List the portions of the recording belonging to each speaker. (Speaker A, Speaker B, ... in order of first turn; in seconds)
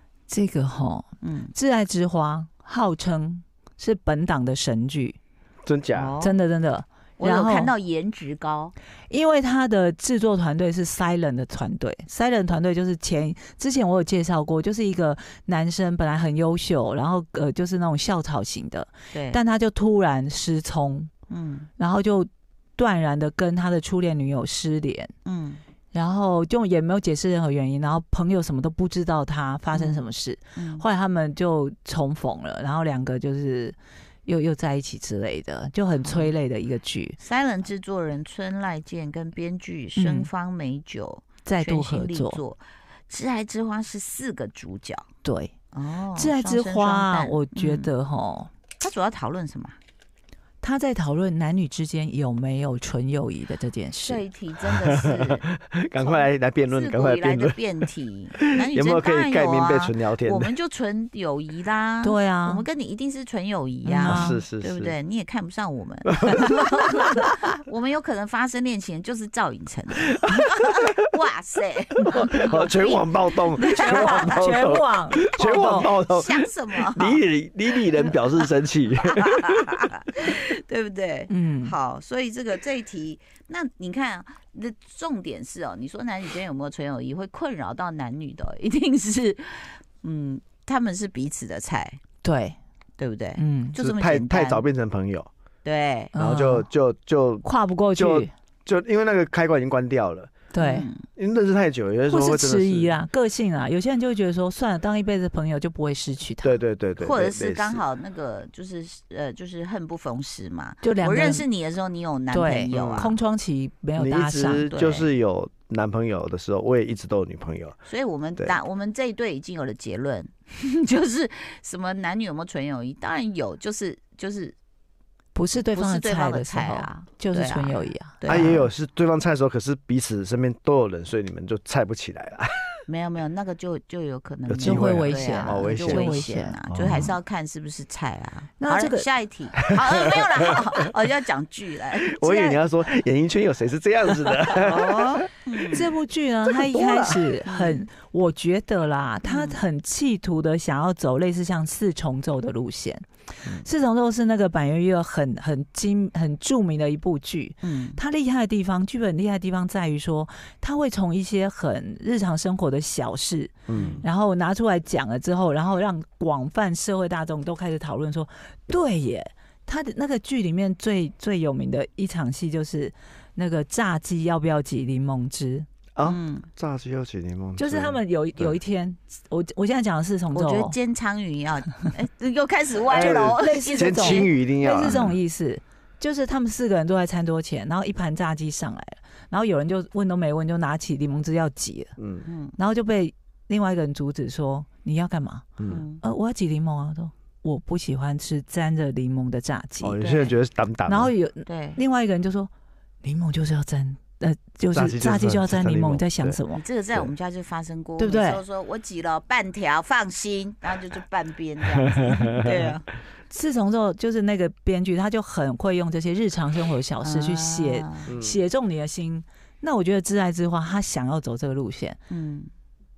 Speaker A: 0.3-5.2, 6.2-7.7, 9.1-21.1, 21.8-25.1, 25.9-37.1, 40.0-40.3, 41.4-42.4, 45.2-45.5, 46.1-48.5, 50.6-54.2, 62.0-62.6, 63.8-64.4, 73.6-75.9, 81.3-81.7, 92.2-92.6, 93.4-93.8, 96.1-96.7, 97.4-98.3, 100.5-100.9, 102.1-106.6, 110.8-111.4, 112.3-114.7, 125.3-128.2, 134.6-137.0, 138.6-139.1, 145.7-175.7, 177.6-180.8, 182.9-191.9, 192.6-200.0, 200.8-202.5, 203.0-206.6, 208.0-208.4, 213.3-222.0
Speaker B: 1.2-1.5, 5.9-6.4, 7.2-8.7, 19.1-19.4, 21.3-21.7, 25.2-25.6, 29.7-30.0, 30.6-30.8, 36.0-36.3, 37.2-45.0, 45.7-47.9, 48.8-49.8, 54.0-55.4, 56.0-74.5, 75.5-77.2, 77.8-78.2, 79.0-92.0, 93.0-94.6, 95.6-96.1, 100.6-101.0, 107.0-113.2, 114.7-115.1, 117.8-124.5, 125.7-128.7, 132.9-142.6, 144.6-145.9, 147.4-147.8, 149.2-149.6, 157.6-158.0, 163.7-164.0, 176.0-176.5, 180.3-185.1, 192.2-192.6, 195.7-196.0, 200.0-200.3, 201.4-201.8, 206.5-212.8, 217.0-218.1, 222.1-222.5
Speaker C: 5.6-6.1, 54.7-57.6, 58.4-60.5, 64.0-65.0, 72.4-79.8, 93.8-95.3, 96.1-100.5, 101.2-103.0, 106.4-107.8, 112.7-113.1, 114.0-117.8, 128.2-132.7, 134.5-137.1, 139.7-140.2, 142.0-145.2, 146.4-147.3, 163.7-164.1, 175.9-178.6, 182.9-185.2, 192.0-192.2, 195.6-195.8, 199.8-201.1, 204.7-206.4, 211.7-212.7, 218.1-218.4